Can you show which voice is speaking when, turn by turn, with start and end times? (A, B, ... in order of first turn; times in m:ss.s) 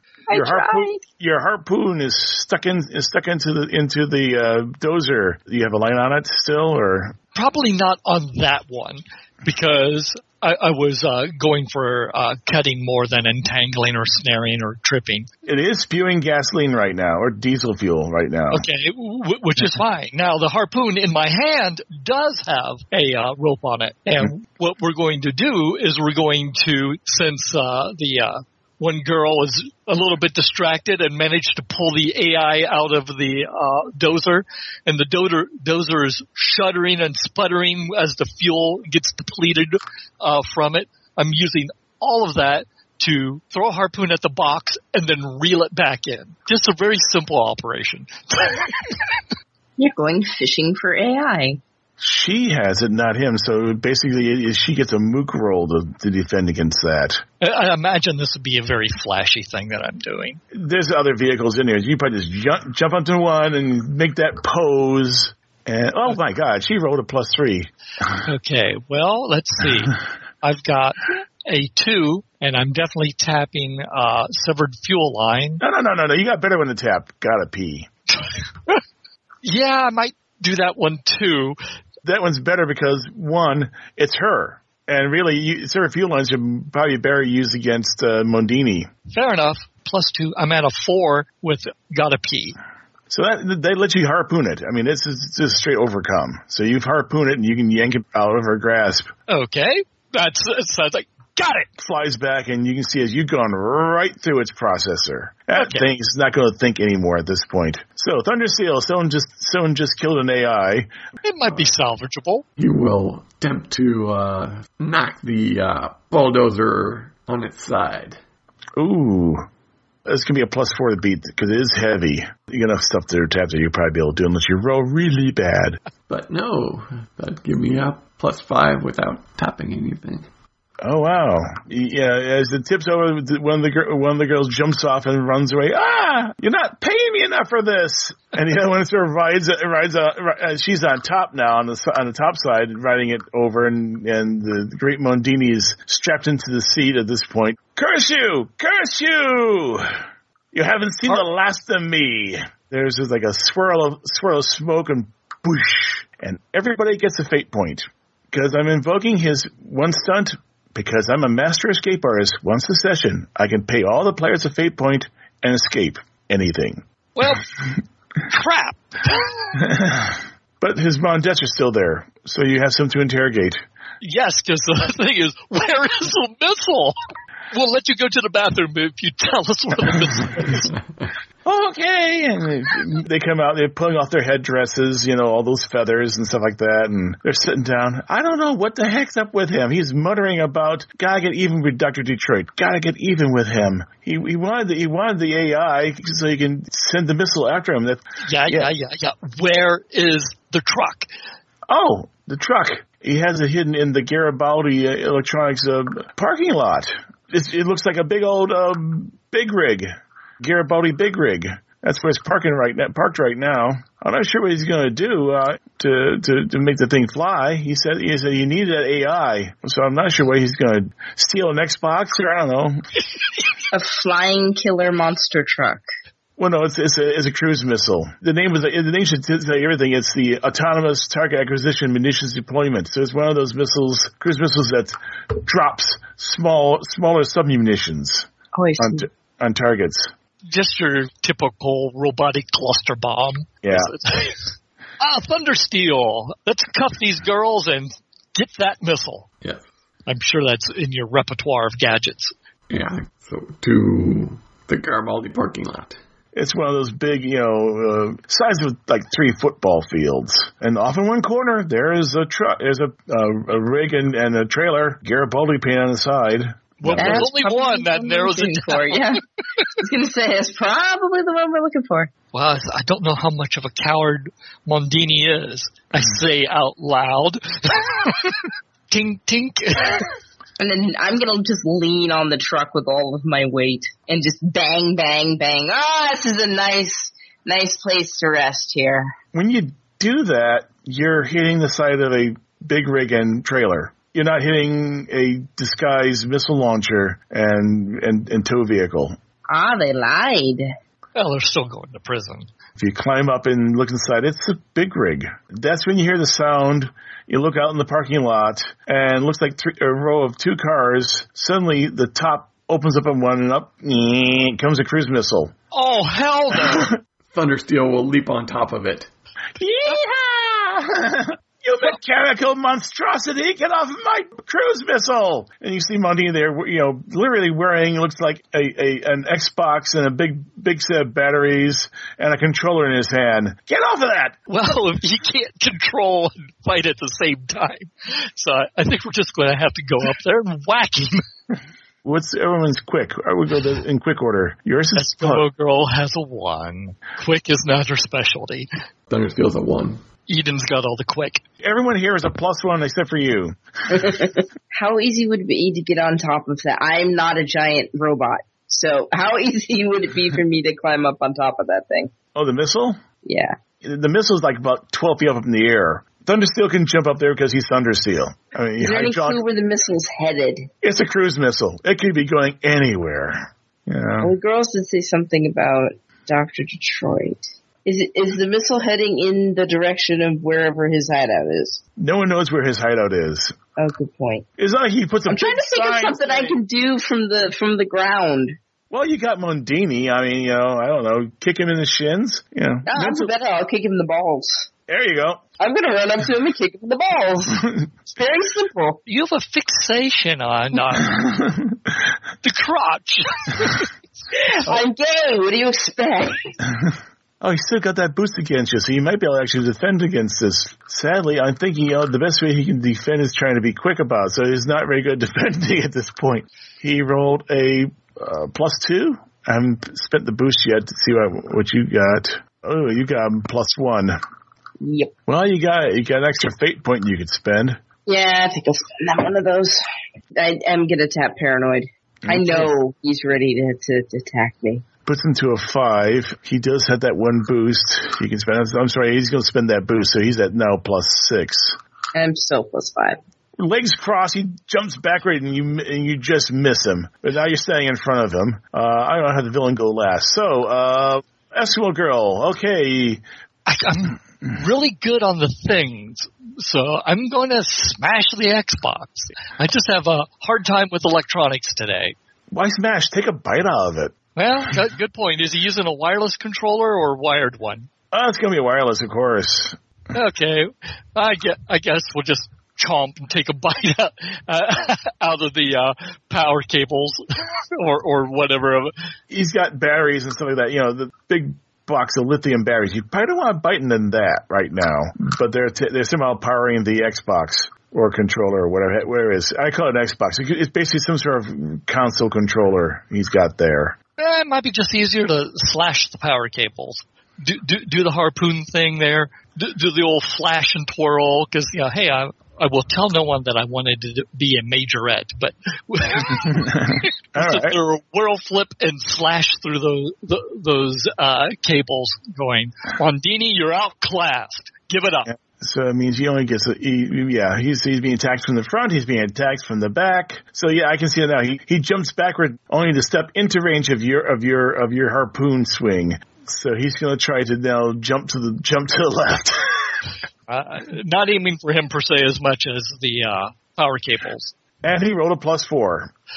0:00.3-0:01.0 A
0:00.3-0:07.2 B
0:07.3-0:15.3 C
0:15.4-0:18.6 B
0:18.5-0:49.0 C
0:49.8-0:51.6 A
0:52.0-0:57.2 B
0:57.4-1:00.4 C
1:00.5-1:07.7 B
1:08.2-1:15.6 C
1:15.6-1:17.9 B
1:19.4-1:21.6 C
1:22.0-1:28.9 B
1:29.1-1:32.6 C
1:33.1-1:39.1 B
1:39.3-1:41.7 C
1:41.8-1:50.9 B
1:45.5-1:45.8 C
1:51.2-1:52.4 C
1:52.6-1:58.2 D
1:58.8-1:59.4 B
2:00.0-2:05.8 B
2:06.1-2:10.3 D
2:10.8-2:30.0 B
2:30.5-2:46.8 B
2:47.2-2:47.5 C
2:48.3-2:49.6 C
2:49.6-2:53.6 B
2:54.0-2:57.0 C
2:57.5-3:00.7 C
3:01.4-3:18.7 B
3:18.2-3:21.1 C
3:21.7-3:42.8 B
3:43.7-3:45.8 A
3:46.4-4:00.1 B
3:58.5-3:59.1 A
4:00.5-4:09.3 C
4:03.6-4:03.9 B
4:10.0-4:12.3 C
4:12.7-4:16.0 D
4:16.3-4:27.3 B
4:26.8-4:29.1 C
4:27.0-4:29.2 A
4:29.8-4:32.1 A
4:32.3-4:40.1 C
4:40.6-4:49.1 A
4:49.3-4:59.2 B
4:59.5-5:00.7 A
5:01.2-5:02.5 C
5:02.8-5:15.5 B
5:15.7-5:16.9 C
5:17.3-5:19.1 D
5:19.6-5:34.4 B
5:34.5-5:41.2 C
5:42.0-5:45.4 B
5:45.0-5:48.7 C
5:49.1-5:50.0 D
5:50.3-5:51.4 C
5:51.6-5:54.1 B
5:53.9-6:02.1 A
6:02.3-6:03.0 B
6:03.2-6:03.5 A
6:03.8-6:09.4 B
6:08.8-6:10.7 A
6:10.8-6:14.3 B
6:14.2-6:21.8 A
6:22.0-6:23.5 B
6:23.8-6:24.4 A
6:24.6-6:26.6 B
6:25.3-6:28.6 A
6:28.9-6:33.3 B
6:32.8-6:34.7 A
6:34.9-6:35.4 B
6:35.6-6:39.0 A
6:39.1-6:41.4 C
6:42.4-6:43.9 C
6:44.4-6:46.5 A
6:47.4-7:04.2 B
7:04.8-7:05.1 A
7:05.3-7:07.8 B
7:08.0-7:09.8 A
7:10.3-7:14.8 A
7:12.2-7:12.7 B
7:15.0-7:21.8 B
7:22.1-7:23.2 A
7:23.6-7:33.2 B
7:33.7-7:42.2 C
7:42.5-7:44.1 B
7:44.4-7:47.9 C
7:48.1-7:49.8 B
7:50.1-7:58.9 C
7:59.3-8:14.0 B
8:14.2-8:35.3 C
8:26.5-8:27.8 B
8:35.3-8:50.0 B
8:50.5-8:54.5 C
8:54.8-8:56.1 B